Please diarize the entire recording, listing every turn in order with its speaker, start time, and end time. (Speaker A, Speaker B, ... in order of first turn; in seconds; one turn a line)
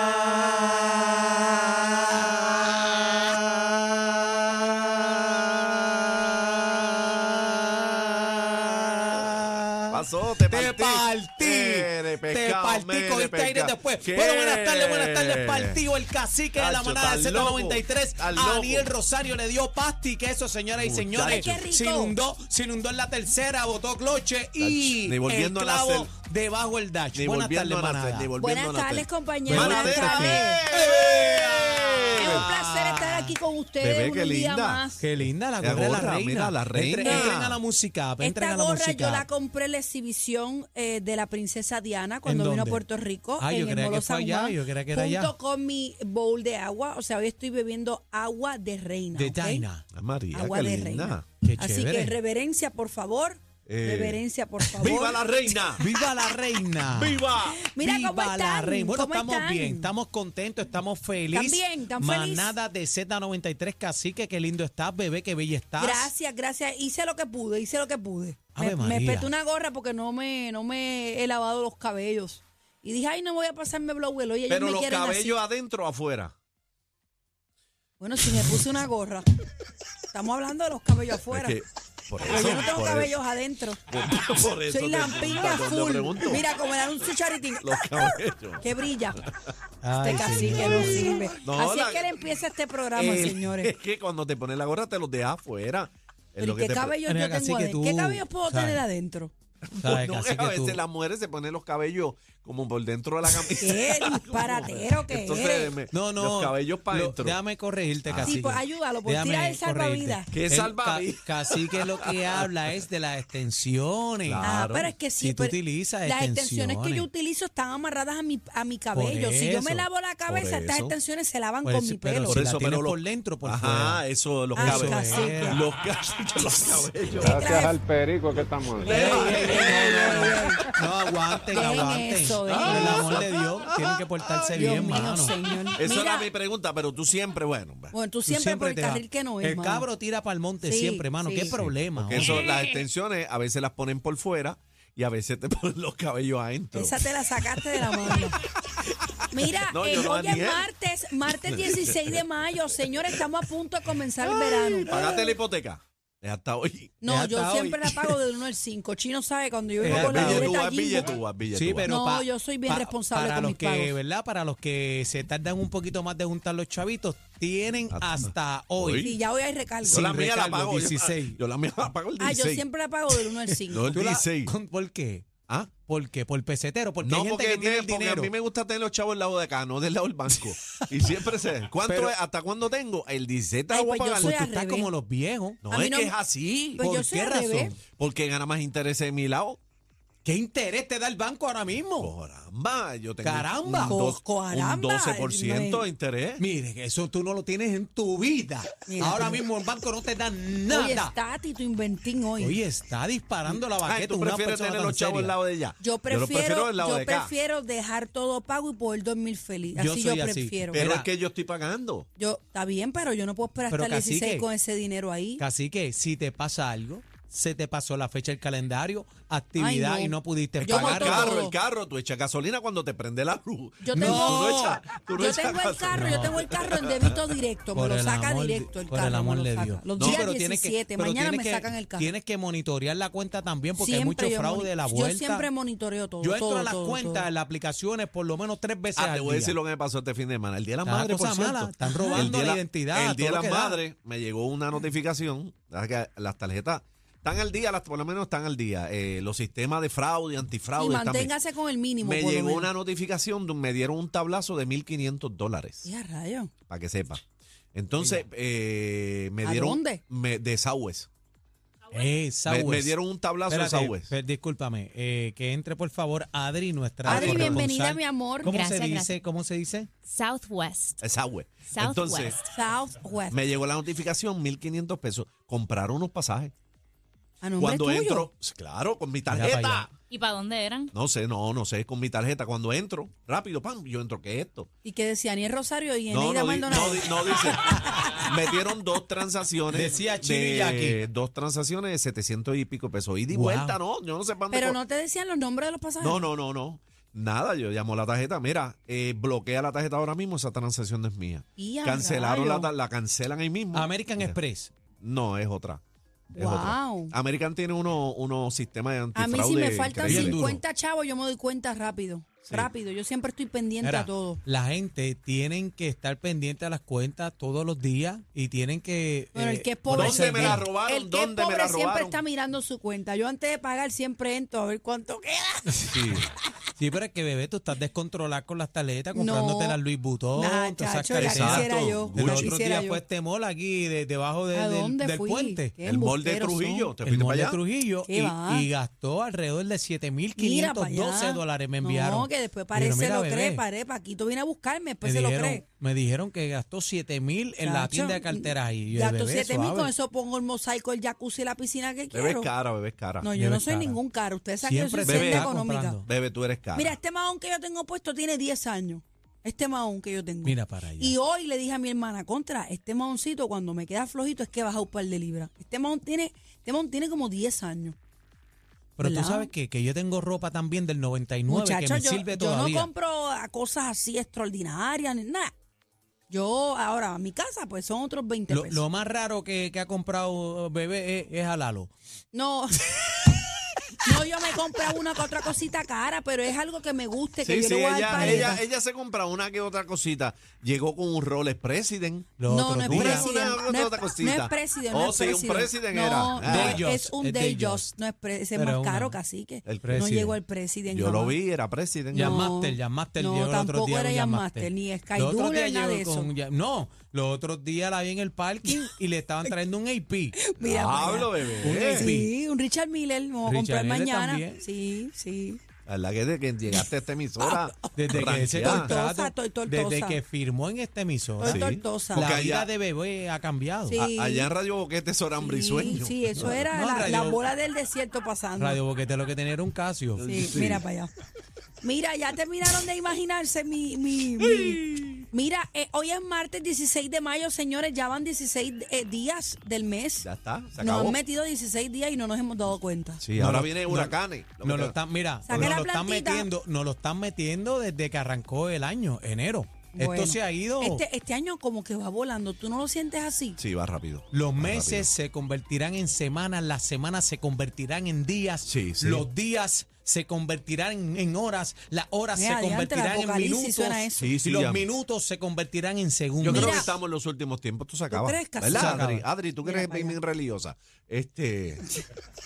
Speaker A: 1.8-3.3
Speaker A: 8.3-28.3
Speaker B: 9.9-15.8
Speaker B: 16.6-18.9
Speaker B: 20.7-21.6
Speaker C: 21.2-22.2
Speaker B: 24.6-26.1
Speaker B: 27.1-32.5
Speaker C: 28.4-30.6
Speaker A: 29.5-33.4
Speaker C: 32.1-35.0
Speaker B: 33.8-34.9
Speaker A: 35.0-39.3
Speaker B: 35.6-37.6
Speaker C: 37.0-37.4
Speaker C: 38.2-49.6
Speaker A: 42.2-42.8
Speaker A: 43.4-45.3
Speaker A: 49.1-49.9
Speaker B: 49.9-51.3
Speaker C: 50.3-55.8
Speaker A: 51.4-52.1
Speaker B: 53.6-54.2
Speaker B: 54.8-55.8
Speaker A: 54.8-55.1
Speaker A: 55.7-57.2
Speaker B: 56.9-57.6
Speaker C: 57.6-59.9
Speaker A: 57.8-66.1
Speaker C: 61.3-62.6
Speaker C: 65.8-75.4
Speaker A: 68.5-69.3
Speaker B: 74.5-76.3
Speaker C: 78.0-79.3
Speaker C: 80.1-81.6
Speaker B: 81.3-83.1
Speaker C: 82.3-83.8
Speaker B: 83.9-86.4
Speaker C: 84.7-89.2
Speaker B: 87.6-88.7
Speaker A: 89.8-91.3
Speaker C: 90.0-93.7
Speaker B: 91.4-92.2
Speaker B: 93.0-97.0
Speaker C: 96.4-99.3
Speaker A: 97.1-98.8
Speaker B: 99.6-107.4
Speaker A: 99.8-100.8
Speaker C: 103.6-105.8
Speaker A: 105.9-114.7
Speaker B: 108.1-108.4
Speaker C: 108.2-110.3
Speaker B: 110.3-112.5
Speaker B: 114.2-114.9
Speaker C: 114.4-122.4
Speaker A: 115.2-117.1
Speaker A: 118.9-120.9
Speaker B: 120.3-120.9
Speaker A: 121.6-124.0
Speaker B: 122.3-127.7
Speaker C: 124.5-125.6
Speaker A: 124.6-125.6
Speaker C: 127.2-127.8
Speaker D: 127.2-129.9
Speaker B: 128.3-130.5
Speaker A: 128.8-130.2
Speaker C: 128.8-130.6
Speaker A: 130.7-135.4
Speaker C: 131.5-133.2
Speaker B: 132.5-134.7
Speaker C: 134.5-136.3
Speaker B: 135.8-137.9
Speaker C: 137.9-139.9
Speaker A: 138.3-142.5
Speaker C: 140.6-141.6
Speaker B: 141.6-147.0
Speaker E: 142.2-142.8
Speaker C: 146.7-148.4
Speaker C: 149.3-155.3
Speaker B: 149.6-150.7
Speaker B: 151.2-152.2
Speaker B: 152.8-153.2
Speaker A: 154.2-155.3
Speaker B: 154.8-157.0
Speaker C: 157.0-161.2
Speaker A: 157.0-158.2
Speaker A: 159.8-160.6
Speaker B: 159.8-161.9
Speaker A: 161.5-169.1
Speaker C: 161.8-164.0
Speaker B: 167.9-169.1
Speaker C: 169.0-170.1
Speaker A: 169.8-171.4
Speaker B: 169.8-172.7
Speaker C: 172.2-174.0
Speaker A: 173.5-175.3
Speaker B: 173.7-174.5
Speaker A: 175.9-178.3
Speaker B: 177.0-184.4
Speaker A: 181.8-182.2
Speaker C: 183.7-184.9
Speaker A: 184.2-185.6
Speaker B: 185.6-186.8
Speaker C: 185.7-186.2
Speaker C: 186.8-187.7
Speaker A: 186.8-187.8
Speaker B: 187.9-189.6
Speaker A: 190.2-192.1
Speaker B: 192.0-196.4
Speaker A: 193.2-194.0
Speaker C: 193.8-195.9
Speaker A: 196.4-201.1
Speaker C: 198.9-199.4
Speaker C: 200.7-202.6
Speaker A: 202.4-205.3
Speaker B: 203.5-207.3
Speaker C: 205.8-210.8
Speaker A: 209.8-211.1
Speaker B: 210.7-212.1
Speaker C: 212.2-215.4
Speaker A: 213.7-214.5
Speaker A: 215.4-221.5
Speaker C: 219.6-221.6
Speaker B: 220.6-227.3
Speaker C: 223.8-224.6
Speaker A: 223.9-224.8
Speaker C: 225.1-232.1
Speaker A: 225.9-226.4
Speaker A: 227.7-235.5
Speaker B: 230.0-230.3
Speaker C: 233.8-237.3
Speaker A: 236.2-239.6
Speaker B: 239.0-251.3
Speaker A: 240.8-243.8
Speaker C: 241.8-242.3
Speaker C: 250.8-252.7
Speaker B: 252.0-255.9
Speaker C: 255.8-256.5
Speaker B: 256.7-257.2
Speaker B: 257.7-261.1
Speaker A: 258.0-258.3
Speaker C: 259.4-260.0
Speaker A: 261.9-263.0
Speaker B: 262.5-264.1
Speaker A: 263.5-269.9
Speaker B: 267.0-267.7
Speaker C: 267.1-268.5
Speaker E: 268.4-269.1
Speaker E: 270.1-271.0
Speaker B: 271.0-272.4
Speaker E: 271.7-272.5
Speaker C: 272.5-273.4
Speaker B: 273.3-276.5
Speaker C: 277.4-278.3
Speaker B: 277.6-279.9
Speaker A: 279.3-279.9
Speaker E: 280.1-280.9
Speaker B: 280.9-284.7
Speaker C: 284.8-288.1
Speaker B: 286.1-294.8
Speaker A: 289.7-291.0
Speaker A: 293.3-293.8
Speaker C: 294.5-296.3
Speaker B: 296.0-304.4
Speaker C: 301.6-302.7
Speaker A: 303.7-304.7
Speaker B: 305.0-305.8
Speaker B: 306.4-310.4
Speaker C: 306.4-307.1
Speaker C: 309.1-314.4
Speaker A: 310.0-310.6
Speaker A: 313.8-320.6
Speaker C: 319.4-325.9
Speaker B: 319.9-322.2
Speaker A: 325.7-326.2
Speaker B: 325.9-326.3
Speaker A: 326.8-335.8
Speaker C: 329.1-329.8
Speaker C: 330.4-333.0
Speaker B: 331.2-332.5
Speaker C: 334.5-336.9
Speaker B: 335.8-337.6
Speaker A: 337.0-343.6
Speaker C: 338.1-338.7
Speaker C: 340.4-345.6
Speaker A: 345.0-349.9
Speaker C: 347.6-352.5
Speaker B: 352.1-353.3
Speaker C: 353.2-356.0
Speaker A: 353.3-354.0
Speaker A: 354.6-356.1
Speaker B: 355.1-355.5
Speaker B: 356.1-357.0
Speaker C: 356.8-368.0
Speaker A: 360.4-361.1
Speaker A: 369.0-372.9
Speaker C: 369.0-369.5
Speaker C: 371.5-375.5
Speaker C: 376.3-378.8
Speaker A: 378.5-381.9
Speaker C: 382.3-383.4
Speaker C: 384.0-388.6
Speaker B: 387.4-392.3
Speaker A: 388.1-388.6
Speaker A: 392.4-393.3
Speaker C: 392.5-401.4
Speaker B: 392.9-396.9
Speaker A: 396.4-397.9
Speaker A: 398.6-399.2
Speaker B: 399.6-400.3
Speaker A: 399.8-400.4
Speaker B: 400.9-402.5
Speaker A: 402.1-410.4
Speaker C: 402.1-406.3
Speaker C: 410.5-415.6
Speaker B: 410.6-412.1
Speaker A: 411.6-412.3
Speaker A: 413.4-414.6
Speaker B: 415.9-418.9
Speaker C: 417.4-417.8
Speaker A: 417.9-424.0
Speaker C: 418.4-420.2
Speaker C: 421.4-422.4
Speaker B: 421.4-422.7
Speaker C: 423.9-424.5
Speaker B: 423.9-426.7
Speaker C: 425.4-428.8
Speaker A: 426.4-427.4
Speaker A: 428.6-430.6
Speaker C: 430.2-431.1
Speaker B: 430.3-430.8
Speaker C: 431.8-440.3
Speaker B: 440.2-441.2
Speaker C: 440.8-443.2
Speaker B: 443.2-445.8
Speaker A: 443.4-451.0
Speaker C: 445.5-446.5
Speaker C: 449.9-453.6
Speaker B: 453.6-455.1
Speaker A: 454.3-466.9
Speaker B: 458.7-459.3
Speaker C: 462.3-464.3
Speaker B: 464.2-464.9
Speaker B: 466.4-471.9
Speaker C: 466.4-466.9
Speaker C: 468.1-469.1
Speaker A: 468.6-469.3
Speaker C: 469.6-470.2